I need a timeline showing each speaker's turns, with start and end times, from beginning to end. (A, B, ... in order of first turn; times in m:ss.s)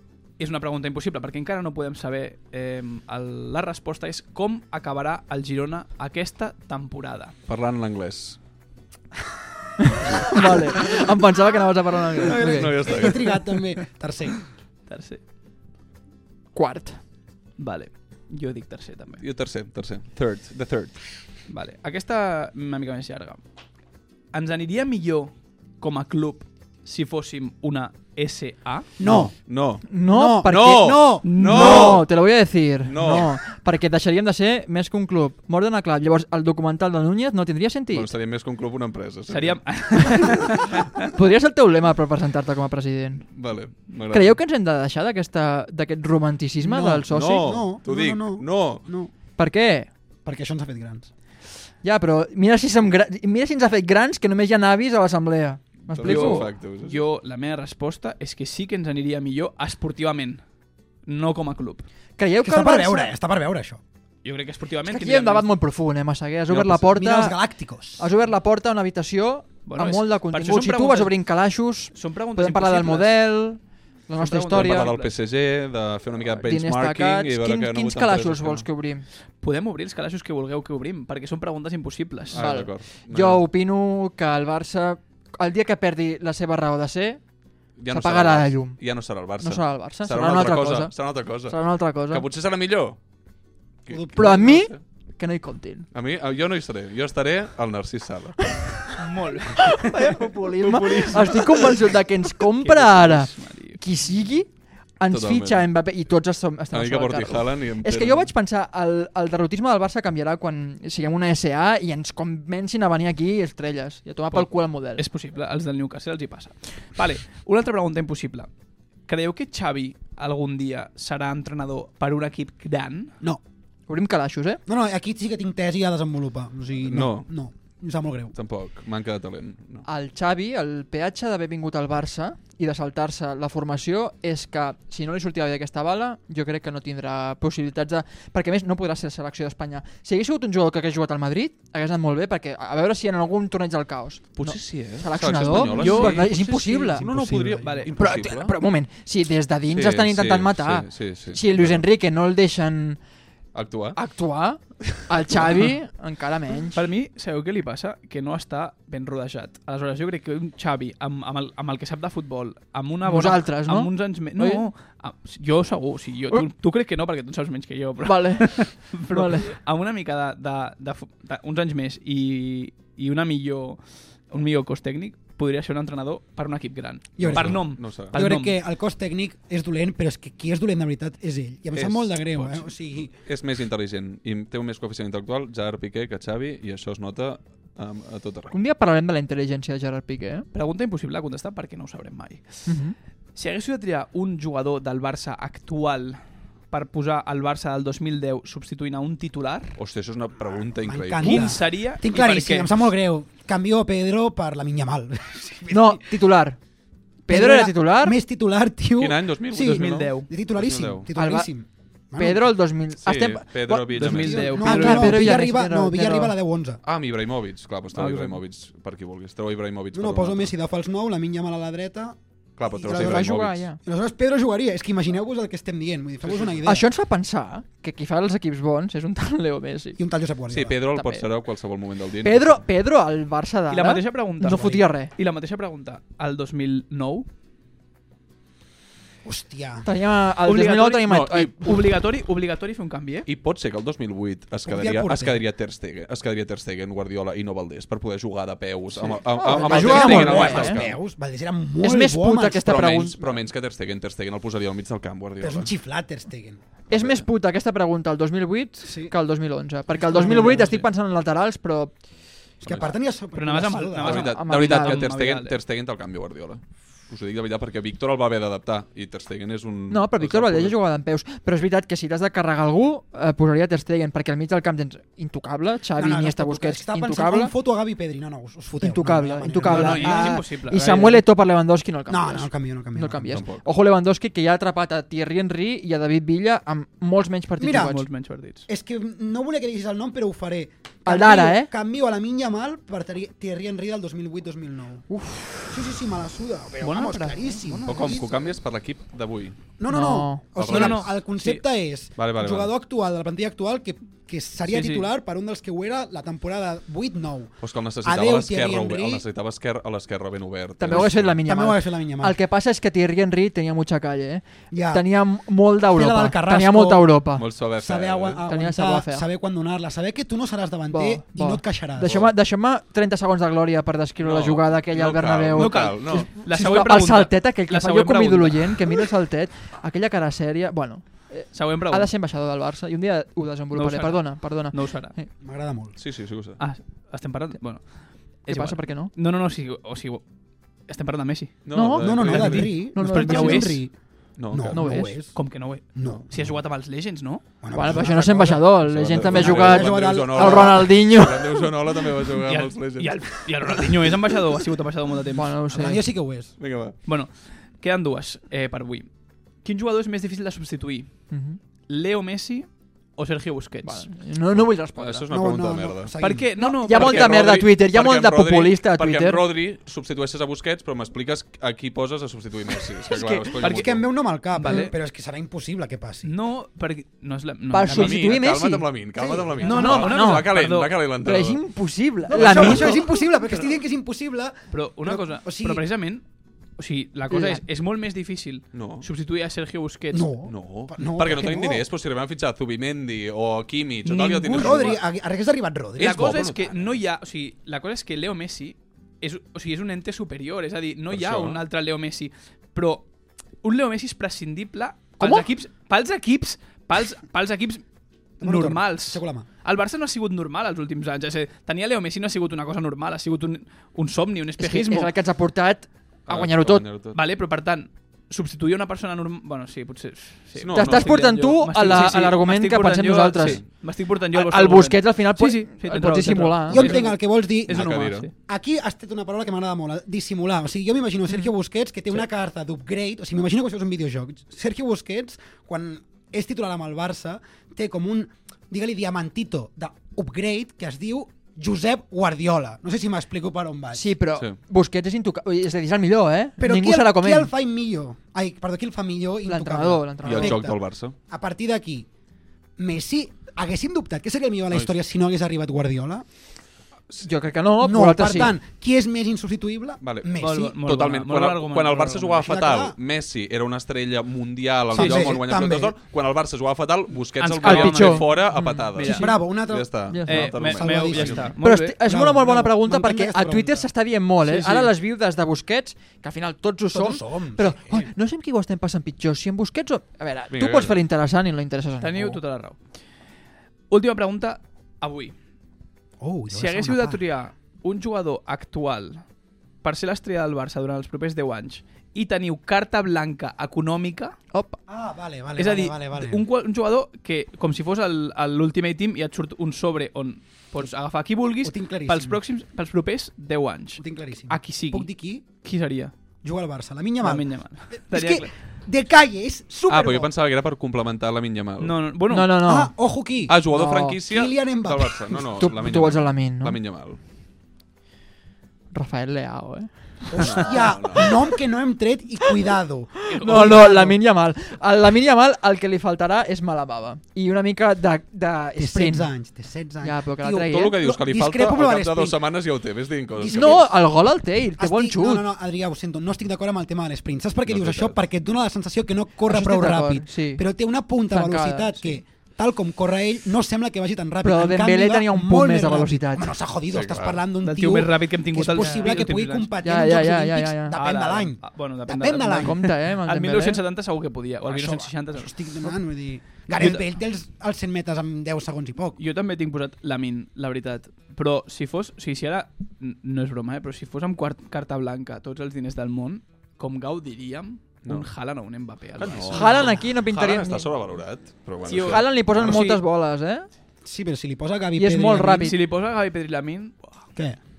0:00.4-0:07.3 A
0:07.5-0:08.4 B
0:09.8-0:13.0 C
0:10.0-0:11.0 B
0:12.2-0:14.4 D
0:12.4-0:13.3 B
0:14.9-0:15.2 A
0:16.5-0:17.0 C
0:17.6-0:19.2 A
0:19.2-0:21.0 B
0:21.5-0:23.4 A
0:24.3-0:28.9 A
0:29.0-0:29.5 D
0:29.0-0:32.1 B
0:29.9-0:38.1 C
0:30.1-0:32.0 D
0:31.2-0:32.0 A
0:32.8-0:33.3 B
0:37.9-0:39.6 B
0:39.3-0:41.0 A
0:41.1-0:43.3 C
0:43.3-0:44.4 B
0:44.1-0:47.5 C
0:46.6-0:49.1 D
0:47.1-0:48.9 B
0:49.4-0:49.9 C
0:50.2-0:51.1 D
0:51.8-0:56.5 C
0:55.9-0:57.0 B
0:56.0-1:00.4 A
1:01.0-1:01.8 A
1:02.2-1:03.1 C
1:02.4-1:03.8 D
1:04.2-1:05.5 A
1:04.9-1:07.4 C
1:06.5-1:06.8 B
1:06.9-1:08.1 D
1:08.0-1:14.9 C
1:09.6-1:11.1 A
1:11.9-1:13.2 A
1:14.2-1:15.2 A
1:14.5-1:18.7 B
1:16.4-1:19.0 C
1:19.4-1:22.4 A
1:22.3-1:23.4 B
1:22.3-1:27.2 C
1:27.8-1:33.0 B
1:27.9-1:28.8 C
1:29.4-1:32.2 C
1:33.9-1:34.8 B
1:33.9-1:34.5 D
1:34.1-1:35.9 C
1:35.9-1:38.9 B
1:39.0-1:41.8 A
1:39.6-1:44.5 C
1:42.4-1:43.8 A
1:45.0-1:55.0 C
1:45.1-1:45.7 B
1:46.7-1:48.3 B
1:55.0-1:58.5 A
1:59.1-2:03.1 A
2:03.9-2:04.6 C
2:04.7-2:08.3 D
2:06.8-2:07.3 B
2:08.3-2:09.8 B
2:09.8-2:27.1 C
2:24.4-2:28.5 B
2:25.5-2:26.4 A
2:26.6-2:28.4 D
2:27.6-2:28.2 A
2:28.0-2:33.0 C
2:29.7-2:31.8 B
2:33.5-2:34.0 B
2:33.9-2:36.8 C
2:36.7-2:53.8 A
2:43.0-2:44.7 C
2:48.0-2:49.5 C
2:54.3-2:58.6 A
2:57.2-3:03.1 D
2:57.2-2:58.2 B
3:01.7-3:02.7 B
3:03.2-3:08.5 B
3:08.5-3:10.4 C
3:10.5-3:12.6 A
3:12.6-3:13.0 C
3:13.3-3:16.2 A
3:16.7-3:19.8 A
3:19.8-3:21.6 B
3:20.8-3:26.2 D
3:21.2-3:22.9 A
3:25.7-3:26.6 C
3:27.2-3:32.6 D
3:27.3-3:28.2 C
3:29.0-3:31.1 B
3:29.5-3:30.3 A
3:31.1-3:31.5 C
3:32.2-3:36.3 C
3:33.0-3:34.6 B
3:33.9-3:35.2 A
3:34.2-3:36.8 D
3:36.8-3:40.5 B
3:37.9-3:38.4 A
3:39.9-3:46.8 D
3:42.6-3:43.6 B
3:42.8-3:43.8 C
3:46.2-3:46.7 B
3:46.6-3:50.0 C
3:50.0-3:50.8 D
3:50.5-3:52.6 B
3:50.9-3:51.3 C
3:52.2-3:55.1 C
3:53.7-3:57.3 A
3:54.4-3:54.8 D
3:59.2-3:59.9 D
3:59.8-4:01.8 C
4:00.4-4:03.3 A
4:01.0-4:01.5 B
4:03.2-4:11.0 B
4:04.6-4:05.4 D
4:08.9-4:12.9 D
4:09.3-4:10.8 C
4:09.8-4:10.5 A
4:11.8-4:13.4 C
4:12.5-4:15.7 B
4:15.4-4:16.6 D
4:16.9-4:21.9 C
4:16.9-4:17.2 B
4:18.8-4:19.1 D
4:19.9-4:20.8 D
4:20.1-4:20.8 A
4:22.6-4:24.3 D
4:22.6-4:22.9 B
4:23.3-4:25.6 A
4:24.0-4:30.8 B
4:24.2-4:25.0 C
4:29.9-4:37.5 C
4:36.0-4:40.4 D
4:38.8-4:48.0 C
4:39.6-4:41.2 A
4:42.1-4:43.4 D
4:43.3-4:43.6 B
4:47.6-4:48.0 D
4:47.7-4:48.6 A
4:48.7-4:55.0 D
4:51.0-4:51.7 C
4:55.1-4:55.7 C
4:55.7-4:58.3 D
4:56.8-4:58.2 A
4:57.8-4:59.6 B
4:59.8-5:09.2 D
4:59.9-5:00.4 C
5:00.6-5:01.2 B
5:00.6-5:01.6 A
5:02.2-5:02.7 B
5:04.7-5:05.1 A
5:07.6-5:11.4 B
5:10.8-5:17.4 C
5:10.9-5:12.4 D
5:14.7-5:15.0 D
5:15.9-5:17.2 D
5:17.4-5:18.4 B
5:17.7-5:22.2 D
5:18.5-5:19.3 C
5:20.9-5:35.3 C
5:24.2-5:26.3 B
5:25.5-5:29.1 A
5:31.5-5:32.1 A
5:33.7-5:35.1 A
5:35.4-5:35.9 D
5:36.0-5:36.6 B
5:36.6-5:40.2 A
5:38.5-5:39.1 C
5:40.9-5:41.6 A
5:41.6-5:42.7 B
5:41.7-5:43.8 C
5:41.8-5:43.9 D
5:42.4-5:43.8 A
5:44.4-5:44.8 B
5:44.5-5:45.4 D
5:44.7-5:45.2 C
5:45.3-5:47.4 A
5:45.9-5:46.6 D
5:47.6-5:51.0 D
5:47.7-5:51.7 C
5:48.8-5:54.0 B
5:52.4-5:55.6 A
5:55.3-5:56.0 C
5:55.7-5:56.5 D
5:56.6-5:56.9 B
5:57.0-5:59.1 A
5:59.6-6:01.1 A
6:01.3-6:01.6 C
6:01.9-6:04.1 A
6:03.8-6:05.2 C
6:04.6-6:06.1 B
6:05.3-6:07.2 D
6:06.2-6:07.4 A
6:06.6-6:09.4 C
6:06.9-6:14.0 B
6:13.1-6:13.5 C
6:13.6-6:16.3 D
6:13.6-6:13.9 A
6:14.6-6:14.9 A
6:16.2-6:18.4 A
6:17.7-6:18.9 C
6:17.9-6:21.6 B
6:17.9-6:18.4 D
6:19.1-6:20.1 D
6:19.6-6:21.0 A
6:19.6-6:20.5 C
6:21.2-6:23.1 C
6:22.3-6:25.8 D
6:22.4-6:22.6 A
6:22.4-6:22.7 B
6:24.7-6:26.2 A
6:26.8-6:30.3 A
6:27.3-6:27.6 C
6:28.7-6:29.0 B
6:30.1-6:31.9 D
6:30.4-6:35.0 B
6:34.0-6:36.4 D
6:34.4-6:35.0 A
6:36.0-6:37.0 B
6:36.0-6:43.1 A
6:41.1-6:41.6 B
6:43.6-6:47.8 A
6:45.2-6:45.5 C
6:48.4-6:55.1 A
6:48.4-6:49.4 D
6:54.6-6:56.8 C
6:56.3-6:57.2 B
6:57.1-7:08.3 A
7:00.6-7:01.2 B
7:00.7-7:03.6 C
7:04.3-7:06.8 C
7:06.7-7:24.1 D
7:06.7-7:07.0 B
7:07.7-7:08.3 B
7:23.9-7:27.5 C
7:26.6-7:32.1 D
7:29.5-7:30.7 C
7:30.2-7:31.1 B
7:32.8-7:36.2 D
7:37.2-7:38.6 C
7:37.8-7:40.8 D
7:40.0-7:51.5 B
7:40.4-7:42.5 A
7:42.4-7:43.0 D
7:44.9-7:45.9 D
7:44.9-7:45.3 A
7:47.4-7:49.3 A
7:47.6-7:49.4 C
7:49.1-7:53.9 D
7:50.1-7:50.5 C
7:50.2-7:52.0 A
7:51.6-8:02.4 C
7:54.4-7:54.9 A
7:56.9-7:58.1 D
8:00.5-8:01.0 B
8:02.0-8:02.8 A
8:03.9-8:05.3 A
8:06.2-8:07.2 D
8:06.5-8:09.2 A
8:09.8-8:14.4 A
8:14.5-8:14.8 C
8:14.9-8:16.4 D
8:15.6-8:25.1 A
8:21.6-8:22.4 D
8:24.0-8:25.4 D
8:25.6-8:26.1 A
8:26.4-8:30.3 D
8:27.2-8:28.5 A
8:29.9-8:32.0 B
8:31.8-8:32.6 A
8:32.3-8:32.9 C
8:32.6-8:33.7 D
8:33.5-8:37.2 B
8:33.7-8:34.2 C
8:34.2-8:35.5 D
8:35.5-8:36.8 C
8:38.9-8:40.6 C
8:40.3-8:44.2 D
8:40.4-8:41.3 B
8:43.3-8:49.3 C
8:43.3-8:43.9 A
8:48.8-8:52.5 D
8:50.0-8:51.0 C
8:50.6-8:53.9 B
8:53.4-8:53.9 D
8:53.5-8:55.5 C
8:54.8-9:12.9 D
8:57.7-8:58.2 B
8:59.5-9:00.6 C
9:01.3-9:02.2 C
9:04.4-9:06.5 C
9:06.9-9:07.4 B
9:07.6-9:09.7 A
9:08.8-9:09.1 C
9:09.8-9:11.0 C
9:10.9-9:15.9 A
9:12.5-9:13.8 C
9:14.6-9:19.2 D
9:16.7-9:17.1 A
9:19.2-9:29.7 A
9:29.2-9:32.8 B
9:29.5-9:30.9 C
9:29.6-9:30.1 D
9:31.8-9:33.0 A
9:31.9-9:33.7 C
9:34.0-9:35.7 D
9:35.0-9:35.8 C
9:35.6-9:37.2 A